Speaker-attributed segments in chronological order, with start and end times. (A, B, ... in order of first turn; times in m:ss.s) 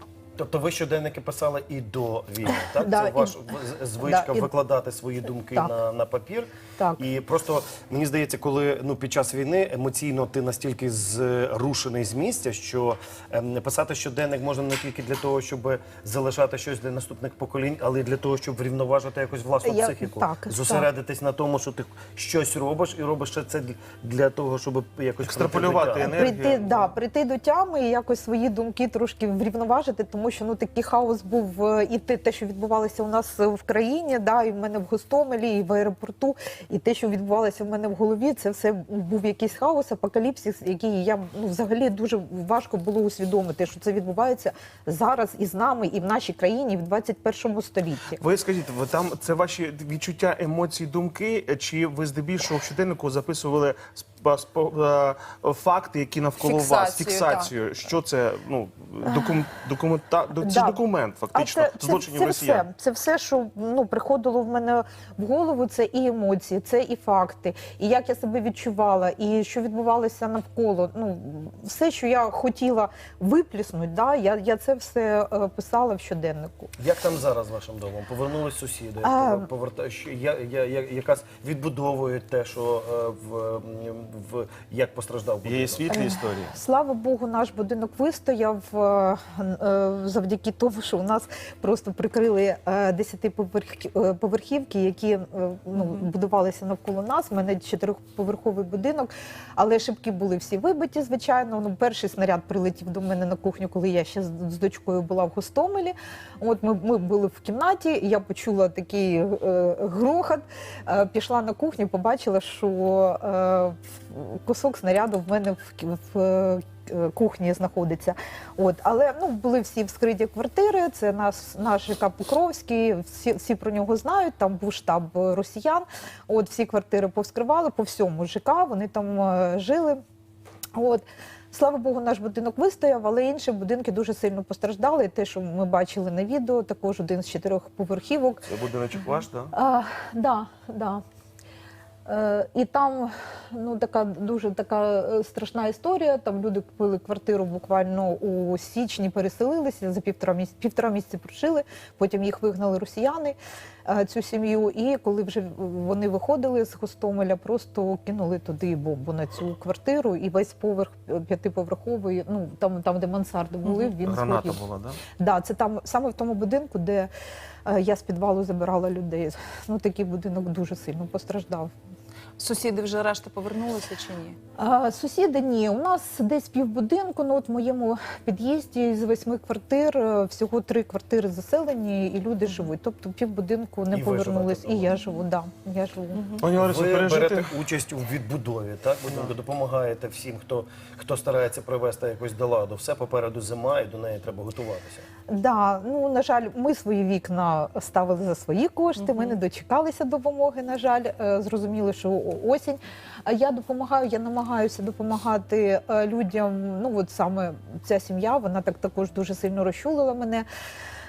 0:00.4-0:26.3 A
0:02.8-0:03.5 B
0:04.0-0:04.5 B
0:06.8-0:07.0 B
0:19.6-0:20.9 B
0:25.2-0:26.9 C
0:26.1-0:48.2 B
0:48.2-1:02.7 C
0:56.4-0:57.5 D
1:00.4-1:00.8 B
1:01.3-1:16.7 B
1:16.8-1:25.9 A
1:19.0-1:19.5 B
1:25.4-1:26.6 C
1:25.9-2:10.0 B
1:35.8-1:36.1 D
2:10.8-2:18.5 B
2:18.5-2:19.5 C
2:19.5-2:21.0 B
2:22.1-2:33.4 B
2:33.9-2:44.6 B
2:44.0-2:45.0 C
2:45.2-2:47.1 B
2:47.7-2:51.7 B
2:52.4-2:54.4 D
2:54.6-3:06.3 B
3:02.5-3:02.7 D
3:03.9-3:04.9 A
3:06.1-3:06.4 D
3:06.4-3:07.5 C
3:06.6-3:15.0 A
3:15.3-3:30.5 B
3:19.0-3:19.4 D